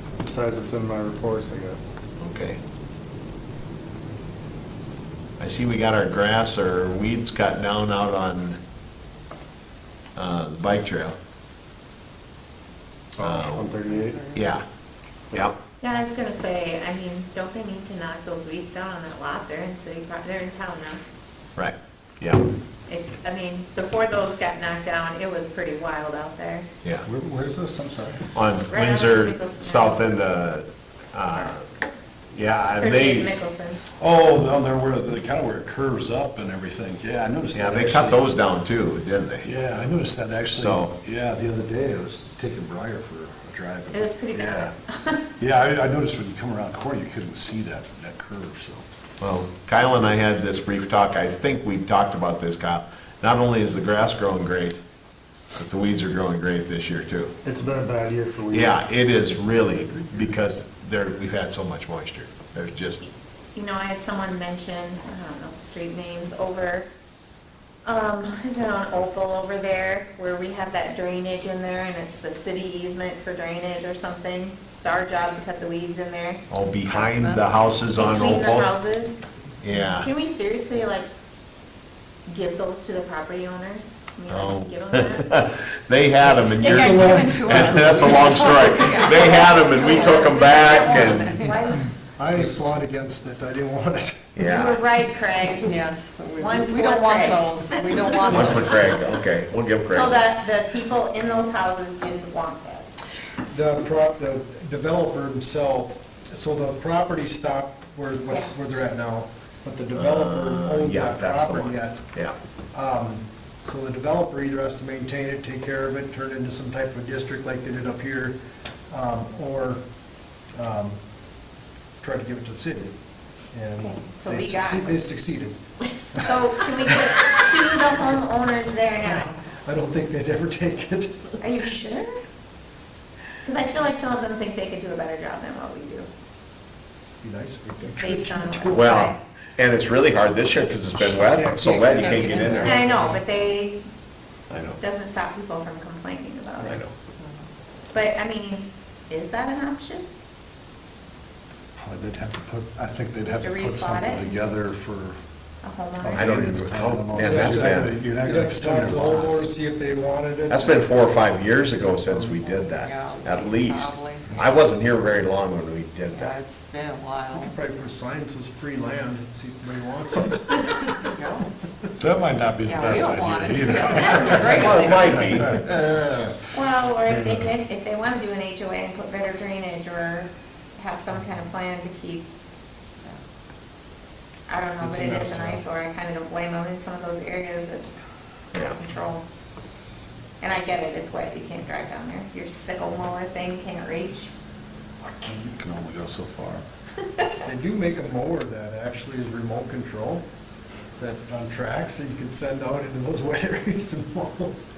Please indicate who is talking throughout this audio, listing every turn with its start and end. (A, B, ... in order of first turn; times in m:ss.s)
0:00.2-0:01.9 A
0:02.2-0:02.6 B
0:05.4-0:08.6 B
0:10.2-0:11.2 B
0:13.2-0:14.2 A
0:13.2-0:13.8 B
0:13.8-0:14.4 C
0:14.3-0:14.6 B
0:15.3-0:15.6 B
0:15.8-0:21.0 D
0:21.6-0:22.5 B
0:22.9-0:26.7 D
0:27.1-0:28.2 E
0:28.4-0:31.6 B
0:28.7-0:30.1 D
0:32.3-0:33.3 B
0:32.8-0:33.8 D
0:34.0-0:38.3 E
0:37.5-0:39.5 B
0:39.4-0:44.7 E
0:40.6-0:41.0 B
0:43.9-0:45.3 D
0:45.4-0:48.8 E
0:49.2-0:54.8 B
0:55.6-0:57.3 B
0:57.4-0:58.8 A
0:58.5-1:03.1 B
1:03.6-1:06.9 D
1:07.8-1:16.4 D
1:16.5-1:18.7 B
1:16.9-1:18.0 C
1:18.0-1:19.2 D
1:19.6-1:20.1 B
1:20.0-1:21.1 D
1:22.3-1:25.3 D
1:24.3-1:31.3 B
1:26.4-1:31.9 C
1:26.9-1:28.3 F
1:28.9-1:30.3 F
1:29.1-1:31.9 D
1:32.1-1:34.3 F
1:32.4-1:32.7 E
1:34.3-1:34.8 B
1:34.4-1:35.8 D
1:35.6-1:38.9 C
1:36.4-1:38.8 D
1:38.2-1:40.2 B
1:39.9-1:42.9 D
1:43.5-1:52.0 F
1:50.0-1:52.4 B
1:52.7-1:58.4 F
1:58.9-1:59.8 F
2:00.6-2:01.0 F
2:02.0-2:02.9 F
2:03.5-2:05.6 F
2:03.8-2:05.0 D
2:06.1-2:09.4 D
2:09.0-2:11.4 F
2:11.4-2:12.2 D
2:13.4-2:16.1 D
2:17.2-2:19.0 F
2:17.8-2:19.2 D
2:18.7-2:22.8 B
2:21.3-2:23.2 F
2:21.8-2:22.8 C
2:22.5-2:23.8 D
2:24.5-2:24.8 B
2:24.8-2:26.8 D
2:26.6-2:26.9 B
2:27.9-2:30.1 D
2:31.8-2:35.2 E
2:33.4-2:34.5 D
2:35.6-2:36.2 D
2:36.0-2:39.5 E
2:36.1-2:38.0 B
2:37.2-2:40.9 F
2:40.5-2:46.4 B
2:42.4-2:44.5 C
2:46.1-2:47.5 C
2:47.3-2:50.9 F
2:51.0-2:51.5 C
2:52.0-2:56.4 E
2:52.6-2:55.4 C
2:54.5-2:55.6 B
2:56.5-3:02.3 D
2:57.1-2:57.5 E
3:04.5-3:08.0 D
3:08.7-3:09.2 D
3:10.4-3:14.3 D
3:15.0-3:15.4 D
3:15.3-3:16.6 E
3:17.1-3:17.5 D
3:17.5-3:20.3 F
3:21.0-3:24.6 F